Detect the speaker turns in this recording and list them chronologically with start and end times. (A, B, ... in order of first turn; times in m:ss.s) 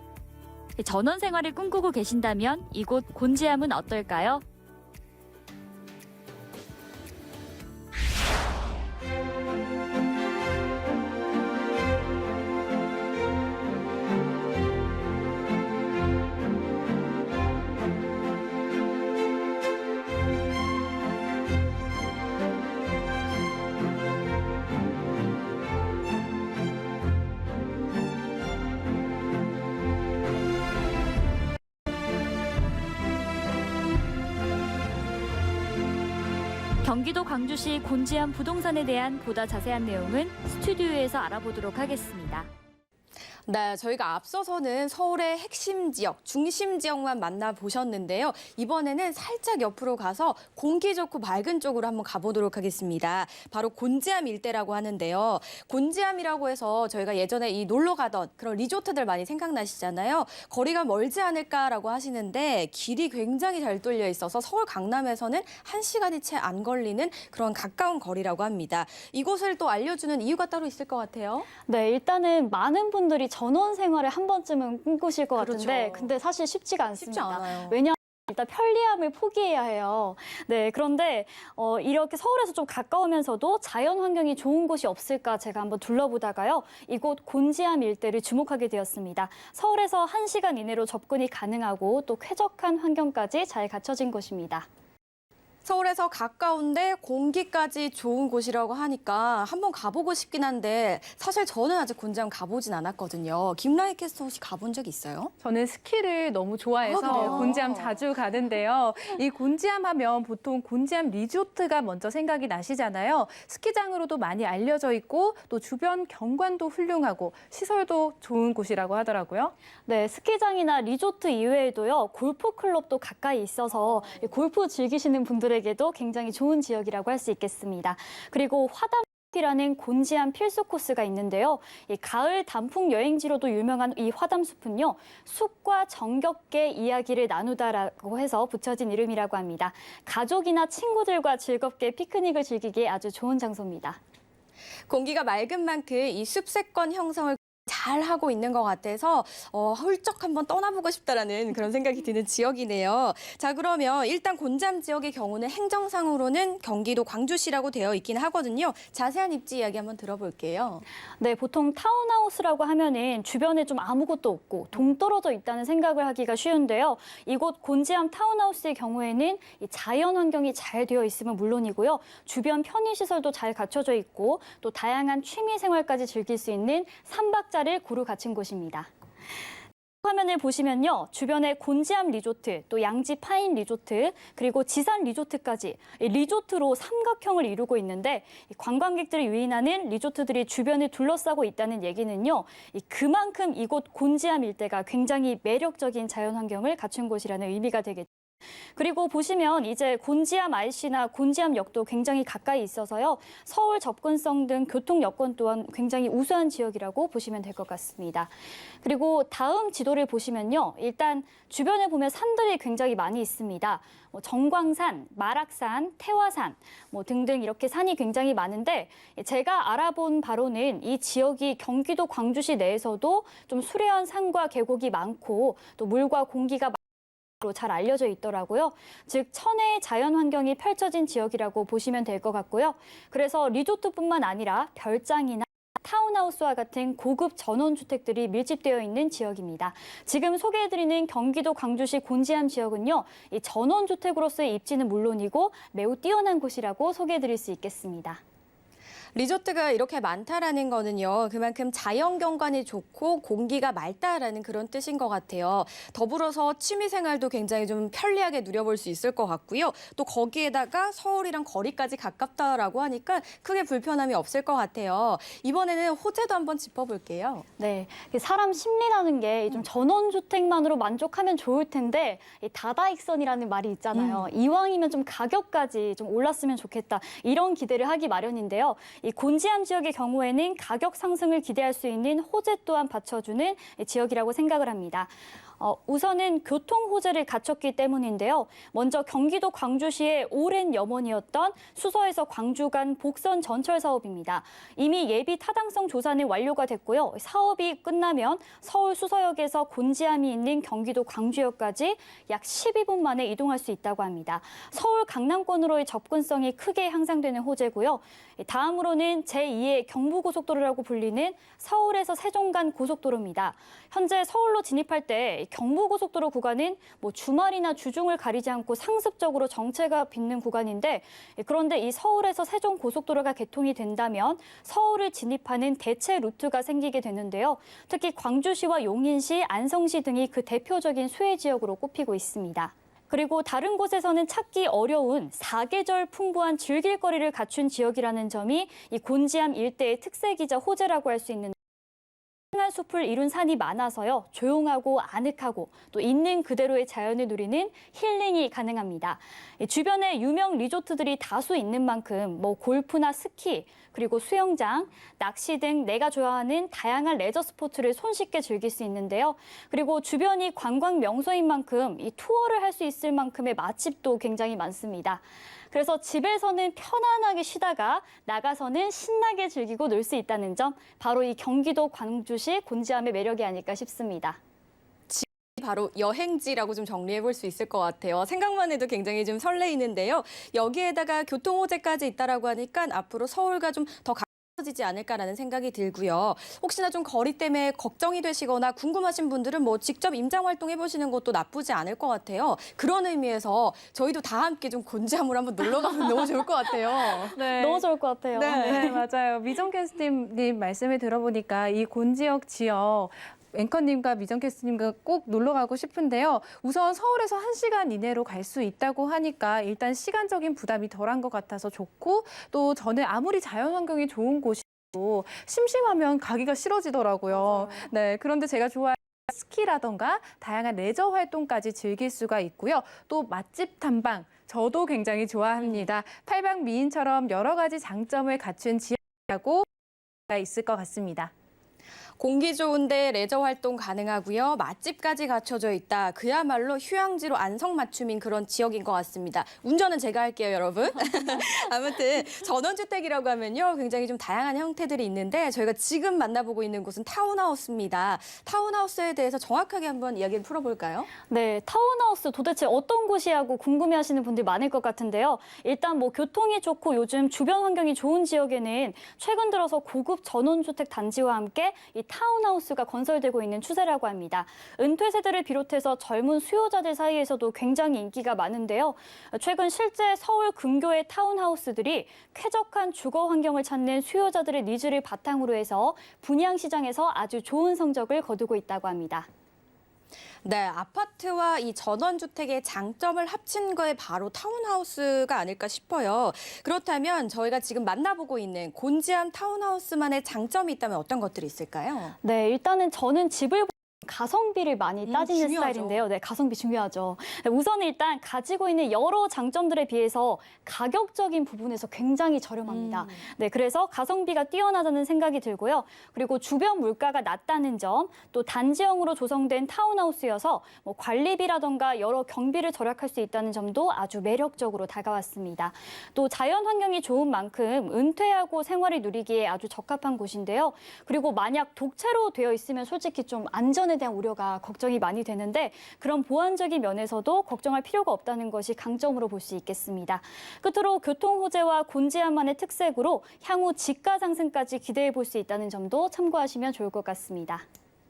0:00.8-0:04.4 A
0:36.8-0:42.5 A
0:43.4-1:11.5 B
1:11.7-1:34.7 A
1:15.4-1:16.1 B
1:17.0-1:17.8 B
1:35.6-1:45.3 B
1:45.4-1:59.5 C
1:46.9-1:48.0 B
1:59.9-2:24.0 A
2:24.9-2:40.8 B
2:41.2-2:58.9 A
3:00.0-3:18.1 A
3:18.8-3:46.8 A
3:47.4-4:08.2 A
4:09.1-4:27.4 B
4:27.6-5:41.6 A
4:33.9-4:34.2 B
5:42.5-6:14.4 A
6:15.1-6:37.4 B
6:37.3-7:09.7 C
6:37.4-6:39.0 A
6:38.5-6:38.9 B
7:10.3-7:11.3 C
7:12.2-7:31.1 B
7:31.3-7:59.3 A
8:00.4-8:12.1 B
8:12.2-8:57.6 A
8:15.0-8:16.0 B
8:22.7-8:23.2 B